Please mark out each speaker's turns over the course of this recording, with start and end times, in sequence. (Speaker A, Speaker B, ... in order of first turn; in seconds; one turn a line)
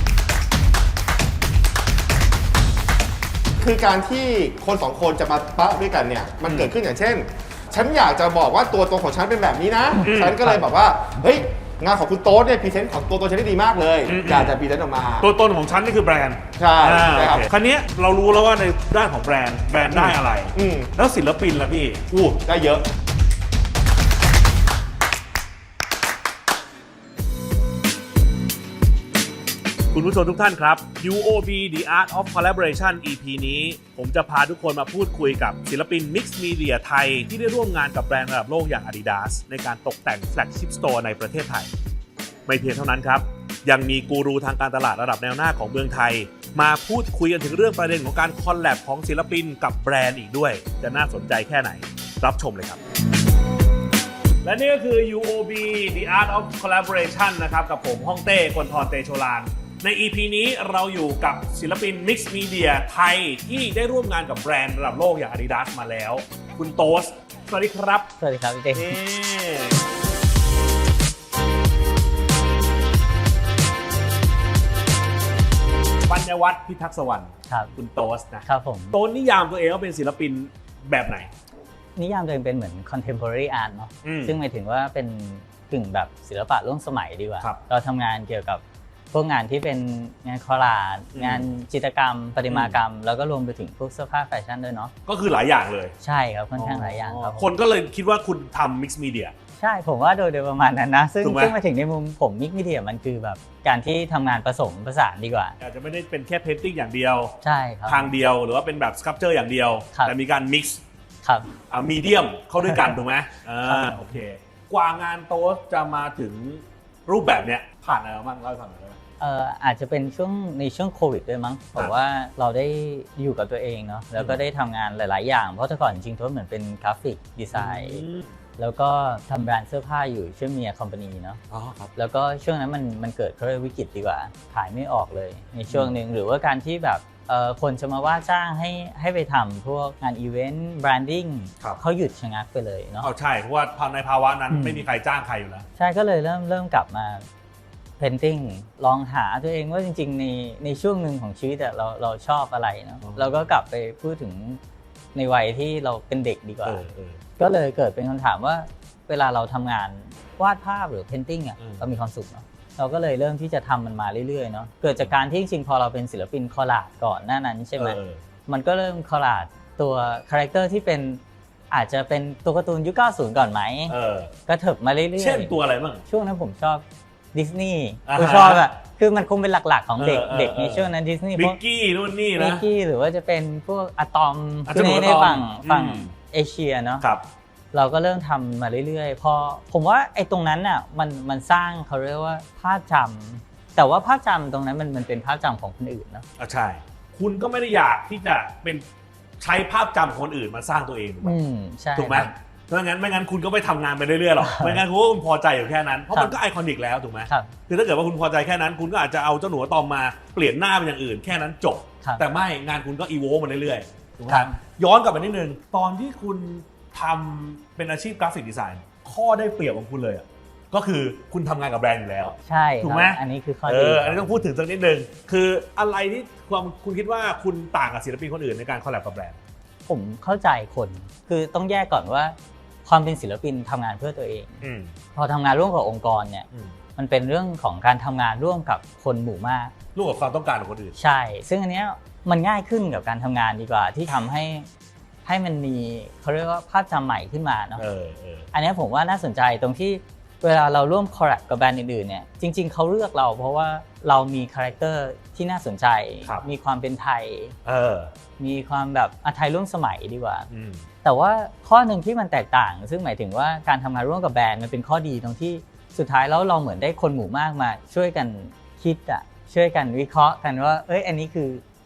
Speaker A: 3.6-15.3
Speaker B: 6.4-6.7
Speaker B: 10.0-10.6
Speaker B: 14.1-14.6
Speaker B: 15.2-22.4
Speaker A: 16.6-17.5
Speaker A: 19.9-20.9
Speaker A: 22.4-22.8
Speaker B: 29.9-41.7
Speaker B: 42.5-52.8
Speaker B: 54.4-68.1
Speaker C: 68.2-69.0
Speaker B: 68.7-69.8
Speaker B: 76.1-81.3
Speaker C: 78.4-79.0
Speaker C: 82.0-94.9
Speaker B: 84.0-84.4
Speaker B: 91.1-91.5
Speaker B: 92.5-92.8
Speaker B: 95.0-95.9
Speaker C: 96.0-97.5
Speaker B: 96.5-99.3
Speaker C: 99.6-105.5
Speaker B: 101.2-101.6
Speaker B: 105.6-110.8
Speaker C: 107.4-108.1
Speaker C: 111.2-111.5
Speaker B: 111.7-119.0
Speaker C: 112.6-113.0
Speaker C: 113.7-114.2
Speaker C: 119.2-128.0
Speaker B: 124.2-124.4
Speaker B: 127.5-128.3
Speaker C: 128.6-131.4
Speaker B: 131.5-131.9
Speaker C: 131.9-143.1
Speaker B: 143.0-145.7
Speaker C: 144.5-144.8
Speaker C: 145.8-147.2
Speaker C: 148.0-154.6
Speaker B: 153.0-153.4
Speaker C: 155.1-156.8
Speaker B: 156.6-157.2
Speaker C: 157.4-173.9
Speaker B: 161.6-161.8
Speaker B: 167.8-168.2
Speaker B: 173.9-174.3
Speaker C: 174.5-175.6
Speaker B: 175.2-176.0
Speaker C: 176.1-181.6
Speaker B: 178.1-178.6
Speaker B: 180.0-182.6
Speaker C: 182.3-187.1
Speaker B: 184.7-186.1
Speaker C: 187.7-196.2
Speaker B: 196.4-198.8
Speaker B: 199.4-201.4
Speaker C: 201.2-202.3
Speaker B: 201.9-229.4
Speaker C: 204.4-204.8
Speaker C: 207.3-207.5
Speaker C: 214.3-214.6
Speaker C: 222.4-224.4
Speaker C: 229.9-234.6
Speaker B: 234.6-234.9
Speaker C: 235.1-239.7
Speaker B: 239.9-240.9
Speaker C: 241.0-244.7
Speaker C: 245.2-247.8
Speaker B: 247.8-248.5
Speaker C: 248.5-257.5
Speaker B: 257.6-258.1
Speaker C: 258.4-260.5
Speaker B: 260.5-260.8
Speaker C: 261.0-271.6